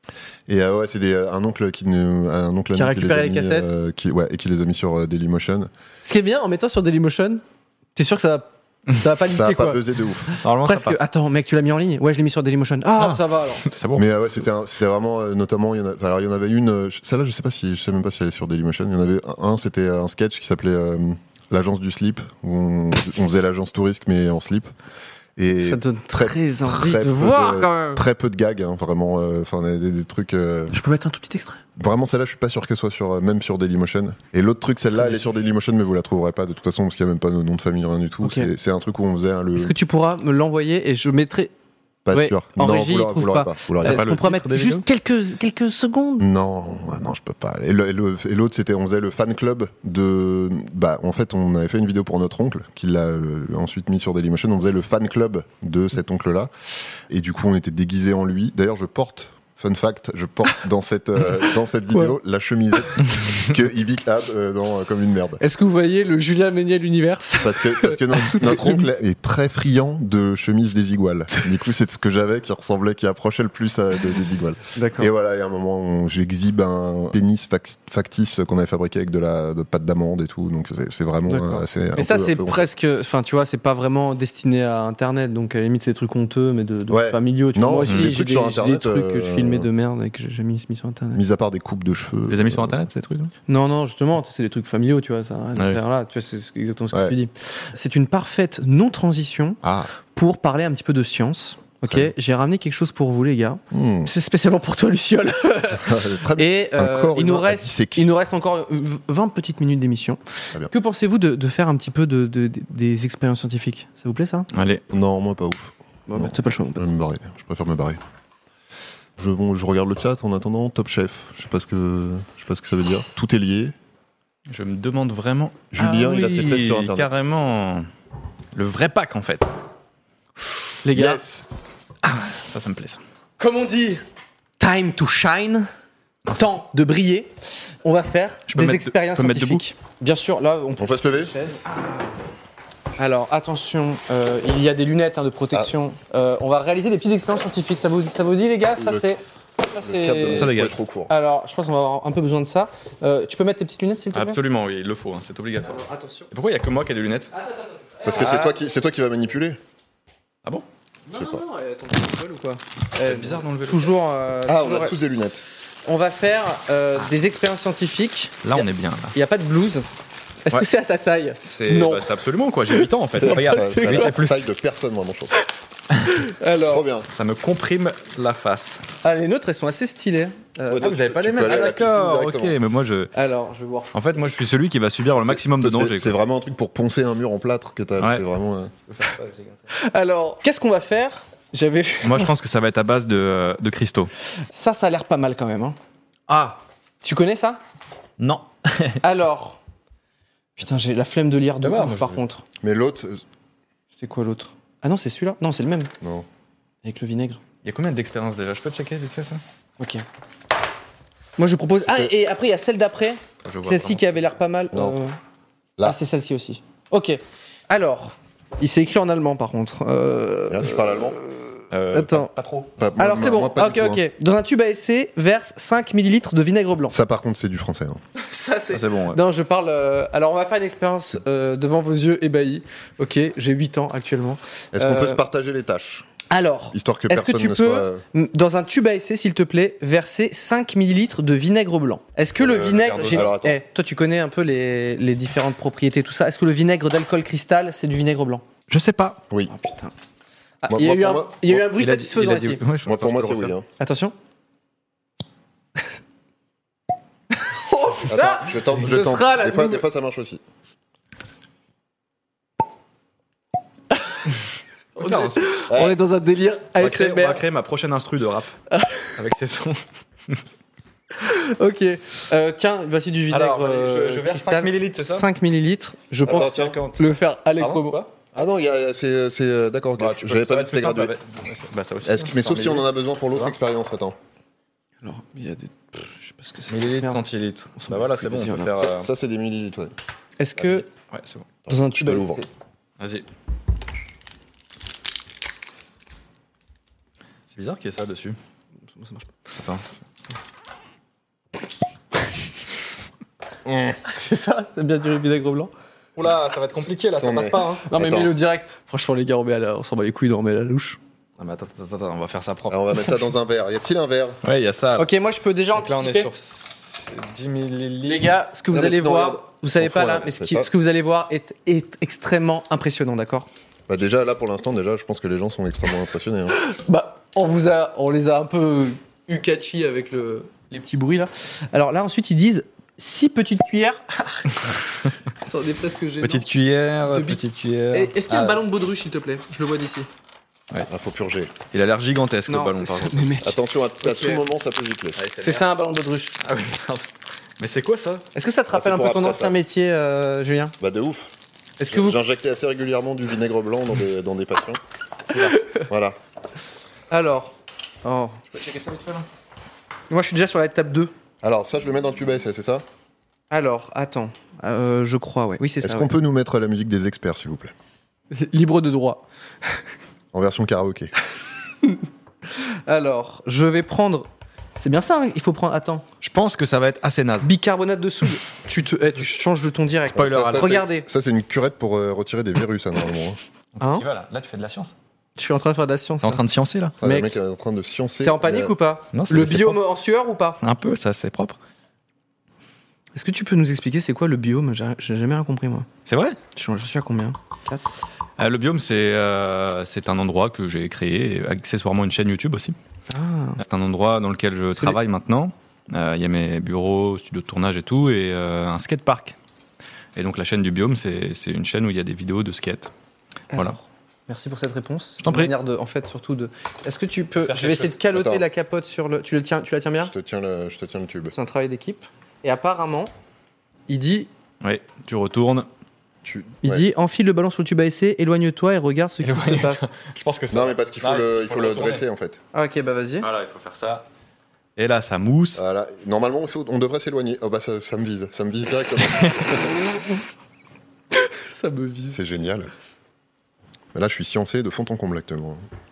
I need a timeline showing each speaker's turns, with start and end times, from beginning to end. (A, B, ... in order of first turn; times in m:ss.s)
0:00.5-0:05.7 A
0:02.8-0:03.7 B
0:06.0-0:07.4 B
0:08.0-0:13.7 B
0:09.3-0:10.3 A
0:10.4-0:11.0 C
0:13.0-0:14.1 C
0:14.0-0:24.7 A
0:25.4-0:30.8 A
0:25.6-0:28.0 B
0:30.7-0:31.6 B
0:31.8-0:39.8 A
0:35.0-0:35.3 B
0:38.2-0:38.5 B
0:39.6-0:41.5 B
0:42.0-0:44.1 A
0:42.1-0:46.3 B
0:43.8-0:44.8 C
0:46.2-0:56.5 A
0:57.1-1:05.4 A
1:05.4-1:08.8 B
1:07.4-1:22.6 A
1:14.8-1:15.1 B
1:21.3-1:31.2 B
1:26.9-1:29.7 A
1:27.9-1:28.1 C
1:31.2-1:32.8 A
1:32.3-1:33.3 C
1:33.5-1:39.6 B
1:39.6-1:39.9 A
1:40.1-1:54.5 B
1:41.8-1:42.1 A
1:43.7-1:44.1 A
1:45.8-1:48.1 A
1:54.5-1:54.8 C
1:54.9-1:58.0 A
1:56.1-1:56.8 B
1:59.2-2:03.8 A
2:04.5-2:07.9 C
2:05.7-2:07.2 A
2:08.6-2:09.5 C
2:10.8-2:11.2 B
2:10.9-2:11.4 A
2:12.0-2:13.0 C
2:13.4-2:14.0 B
2:14.6-2:15.7 B
2:16.3-2:17.3 B
2:17.8-2:22.1 B
2:18.5-2:19.6 C
2:20.8-2:21.3 A
2:23.0-2:30.5 B
2:28.8-2:29.1 A
2:29.8-2:31.1 A
2:30.3-2:30.8 C
2:31.1-2:34.4 B
2:34.1-2:37.3 C
2:35.7-2:36.3 B
2:37.3-2:38.5 B
2:38.0-2:39.6 A
2:41.1-2:45.0 B
2:41.1-2:41.4 A
2:43.0-2:44.0 C
2:44.5-2:45.4 A
2:45.8-2:49.9 B
2:48.4-2:49.2 C
2:50.4-2:52.1 B
2:51.4-2:54.5 C
2:52.8-2:54.2 B
2:53.2-2:55.4 A
2:56.1-2:56.8 B
2:56.7-2:57.1 A
2:57.1-2:58.8 C
2:59.0-3:00.9 B
3:00.7-3:02.6 A
3:00.8-3:03.1 C
3:03.2-3:04.3 B
3:03.9-3:06.2 C
3:05.1-3:08.7 A
3:08.0-3:08.2 C
3:08.9-3:09.6 C
3:09.7-3:12.3 B
3:12.0-3:14.1 C
3:14.5-3:15.8 B
3:16.3-3:16.6 C
3:17.0-3:17.6 B
3:18.2-3:19.0 C
3:19.0-3:19.6 B
3:20.6-3:22.4 B
3:21.6-3:22.2 C
3:22.6-3:23.2 A
3:24.0-3:25.9 B
3:26.0-3:26.3 A
3:26.8-3:27.4 B
3:27.6-3:29.4 C
3:29.8-3:30.0 B
3:31.4-3:35.2 B
3:31.9-3:32.1 A
3:33.4-3:34.1 C
3:35.8-3:41.2 B
3:40.5-3:41.2 A
3:41.7-3:42.7 C
3:41.9-3:42.3 B
3:42.8-3:44.0 A
3:43.0-3:47.0 B
3:46.9-3:48.0 A
3:48.2-3:55.2 B
3:48.7-3:49.2 C
3:54.7-3:56.1 A
3:56.3-4:08.4 B
3:56.7-3:58.0 A
4:02.4-4:03.3 C
4:03.1-4:03.6 A
4:08.7-4:09.2 C
4:09.5-4:09.9 B
4:10.6-4:12.6 B
4:10.7-4:11.6 A
4:11.7-4:13.5 C
4:12.8-4:13.7 A
4:13.8-4:14.1 B
4:17.4-4:19.8 B
4:18.1-4:20.4 A
4:25.0-4:27.4 B
4:25.0-4:26.0 C
4:26.8-4:28.5 C
4:28.7-4:29.1 B
4:29.2-4:30.4 C
4:31.2-4:38.0 B
4:33.3-4:35.3 C
4:36.3-4:38.3 C
4:36.3-4:36.8 A
4:38.4-4:41.1 A
4:40.0-4:43.5 C
4:42.0-4:44.2 A
4:45.0-4:47.2 B
4:46.7-4:49.1 C
4:47.8-4:48.7 B
4:48.8-4:49.9 A
4:50.4-4:50.9 B
4:50.6-4:51.5 C
4:51.7-4:52.4 A
4:51.7-4:52.5 B
4:53.0-4:53.3 C
4:57.5-4:58.4 C
4:59.0-4:59.3 B
4:59.6-4:59.9 C
5:03.6-5:04.0 A
5:04.0-5:05.7 B
5:06.2-5:07.8 C
5:07.0-5:08.4 A
5:07.9-5:11.0 B
5:11.4-5:13.2 C
5:12.7-5:14.4 A
5:14.4-5:15.1 C
5:15.0-5:16.3 B
5:15.7-5:18.4 C
5:18.0-5:23.5 B
5:18.7-5:20.7 A
5:23.9-5:26.6 A
5:26.6-5:34.6 B
5:35.4-5:36.5 B
5:36.2-5:38.6 C
5:37.1-5:40.1 B
5:40.9-5:41.5 A
5:41.7-5:43.4 C
5:42.5-5:44.4 B
5:43.4-5:45.2 A
5:45.2-5:45.7 C
5:45.4-5:46.4 B
5:46.4-5:47.1 C
5:47.6-5:48.2 C
5:48.4-5:50.8 B
5:48.7-5:49.6 A
5:50.8-5:51.3 A
5:51.8-5:52.2 B
5:51.9-5:54.8 A
5:55.3-5:55.6 C
5:55.8-5:56.2 A
5:57.1-5:58.6 B
5:58.6-5:59.2 C
6:00.1-6:01.1 B
6:01.4-6:02.8 A
6:03.5-6:06.1 B
6:05.8-6:07.7 A
6:08.3-6:09.2 B
6:10.3-6:11.1 A
6:12.5-6:14.3 B
6:14.8-6:16.0 B
6:16.2-6:17.5 C
6:17.4-6:21.1 B
6:20.1-6:20.8 C
6:20.1-6:23.4 A
6:23.8-6:24.9 C
6:23.8-6:24.1 B
6:25.4-6:26.4 B
6:26.2-6:27.0 C
6:27.0-6:28.7 A
6:27.0-6:27.4 B
6:28.2-6:30.6 B
6:29.1-6:29.8 C
6:30.6-6:31.6 C
6:33.2-6:35.9 B
6:36.1-6:36.4 C
6:36.6-6:37.8 B
6:38.4-6:42.8 C
6:43.1-6:43.6 B
6:43.6-6:49.4 C
6:50.2-6:52.9 C
6:53.5-7:00.1 B
6:55.2-6:55.5 C
6:57.4-6:58.0 C
6:58.1-6:58.4 A
7:00.0-7:01.4 A
7:01.3-7:03.1 B
7:03.9-7:04.3 B
7:04.6-7:05.7 C
7:06.2-7:06.9 A
7:06.6-7:09.9 B
7:09.2-7:12.0 C
7:10.5-7:12.4 A
7:12.5-7:13.3 B
7:13.2-7:14.1 C
7:14.8-7:15.6 C
7:15.6-7:19.7 A
7:19.1-7:19.5 C
7:21.2-7:22.2 B
7:22.1-7:22.7 A
7:23.9-7:25.6 A